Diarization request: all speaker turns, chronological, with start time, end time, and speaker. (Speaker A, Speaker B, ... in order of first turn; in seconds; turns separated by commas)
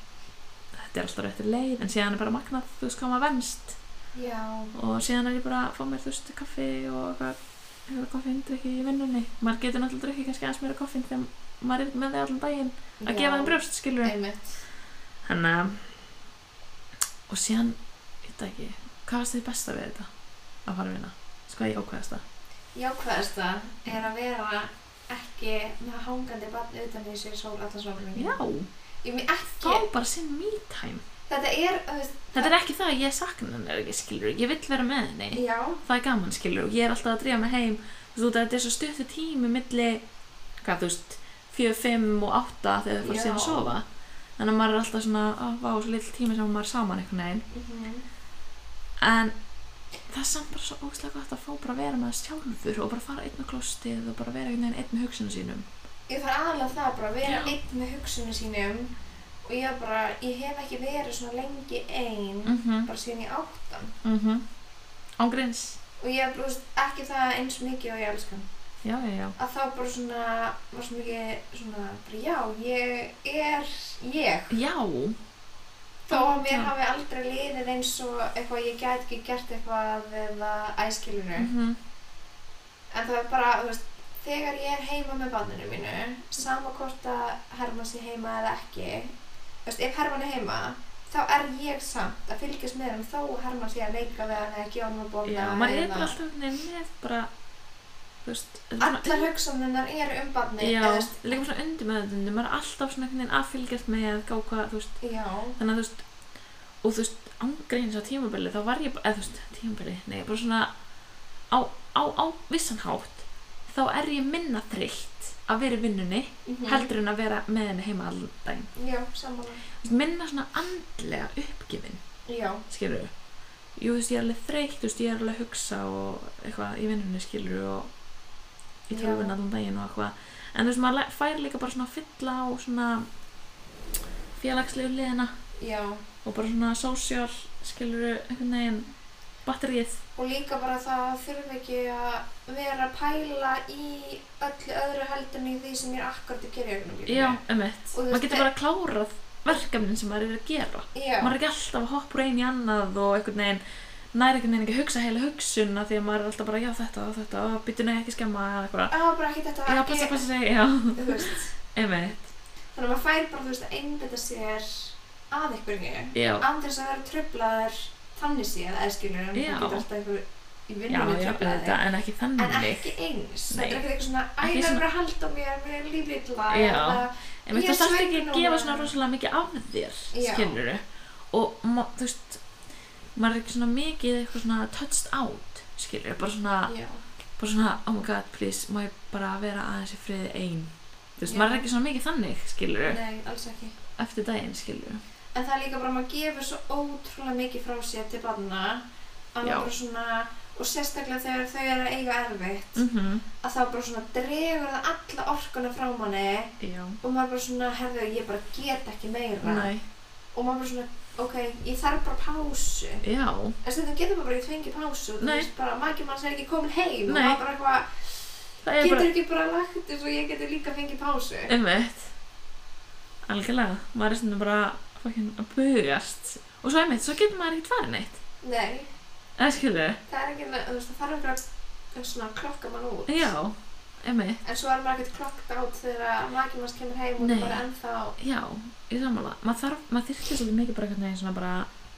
Speaker A: 0.7-3.8, Speaker B: 4.1-4.7, Speaker A: 4.7-14.1, Speaker B: 13.0-14.6, Speaker A: 15.2-16.1, Speaker A: 17.3-20.1, Speaker A: 20.6-22.2, Speaker B: 22.8-28.4, Speaker A: 28.2-28.7, Speaker B: 29.0-29.9, Speaker A: 29.6-31.0, Speaker B: 31.3-32.5, Speaker A: 32.4-40.0, Speaker B: 35.3-35.8, Speaker A: 40.6-43.9, Speaker B: 43.0-43.8, Speaker A: 44.4-47.4, Speaker B: 47.5-48.0, Speaker A: 49.0-49.4, Speaker A: 50.1-55.7, Speaker B: 56.1-58.9, Speaker A: 57.2-57.5, Speaker B: 59.5-64.0, Speaker A: 62.5-62.9, Speaker A: 64.0-64.5, Speaker A: 65.2-65.8, Speaker B: 66.0-68.5, Speaker A: 68.8-69.4, Speaker B: 69.4-74.5, Speaker A: 74.5-75.2, Speaker B: 76.1-81.5, Speaker A: 76.1-76.7, Speaker A: 81.4-81.8, Speaker B: 82.9-89.1, Speaker B: 89.7-96.2, Speaker A: 95.2-97.3, Speaker A: 98.2-99.3, Speaker B: 98.8-101.2, Speaker A: 100.6-105.0, Speaker B: 105.0-105.6, Speaker A: 105.6-106.0, Speaker A: 106.8-110.7, Speaker A: 111.5-118.7, Speaker B: 116.5-116.9, Speaker B: 118.8-119.6, Speaker A: 119.8-122.0, Speaker B: 122.3-122.6, Speaker A: 122.7-123.1, Speaker A: 123.8-127.9, Speaker A: 128.9-133.1, Speaker B: 128.9-129.3, Speaker A: 134.3-135.3, Speaker B: 135.6-136.0, Speaker A: 136.2-138.9, Speaker A: 139.4-140.0, Speaker B: 140.2-147.4, Speaker A: 147.1-153.6, Speaker B: 147.9-148.5, Speaker B: 150.9-151.4, Speaker A: 154.1-158.9, Speaker B: 158.9-160.3, Speaker A: 159.7-162.3, Speaker B: 160.9-161.5, Speaker B: 162.7-171.8, Speaker A: 166.2-166.4, Speaker A: 169.3-169.9, Speaker A: 170.9-172.9, Speaker B: 172.4-178.9, Speaker A: 173.5-173.8, Speaker A: 174.4-174.8, Speaker A: 176.5-182.5, Speaker B: 180.1-180.6, Speaker A: 183.2-186.7, Speaker B: 186.7-187.0, Speaker A: 187.4-193.0, Speaker B: 191.2-191.7, Speaker B: 192.9-193.8, Speaker A: 194.0-195.0, Speaker B: 195.3-198.8, Speaker B: 199.3-202.9, Speaker A: 199.4-199.7, Speaker A: 202.8-203.2, Speaker B: 203.4-209.7, Speaker A: 206.6-207.0, Speaker A: 209.4-209.8, Speaker B: 210.3-213.0, Speaker A: 213.0-213.6, Speaker B: 213.6-221.5, Speaker A: 215.2-215.5, Speaker A: 217.1-217.4, Speaker A: 218.6-219.1, Speaker A: 221.5-222.1, Speaker A: 223.2-228.2, Speaker B: 228.4-228.9, Speaker A: 229.4-230.0, Speaker B: 230.1-233.3, Speaker A: 233.1-234.4, Speaker B: 234.4-238.2, Speaker A: 237.2-237.6, Speaker A: 238.2-241.7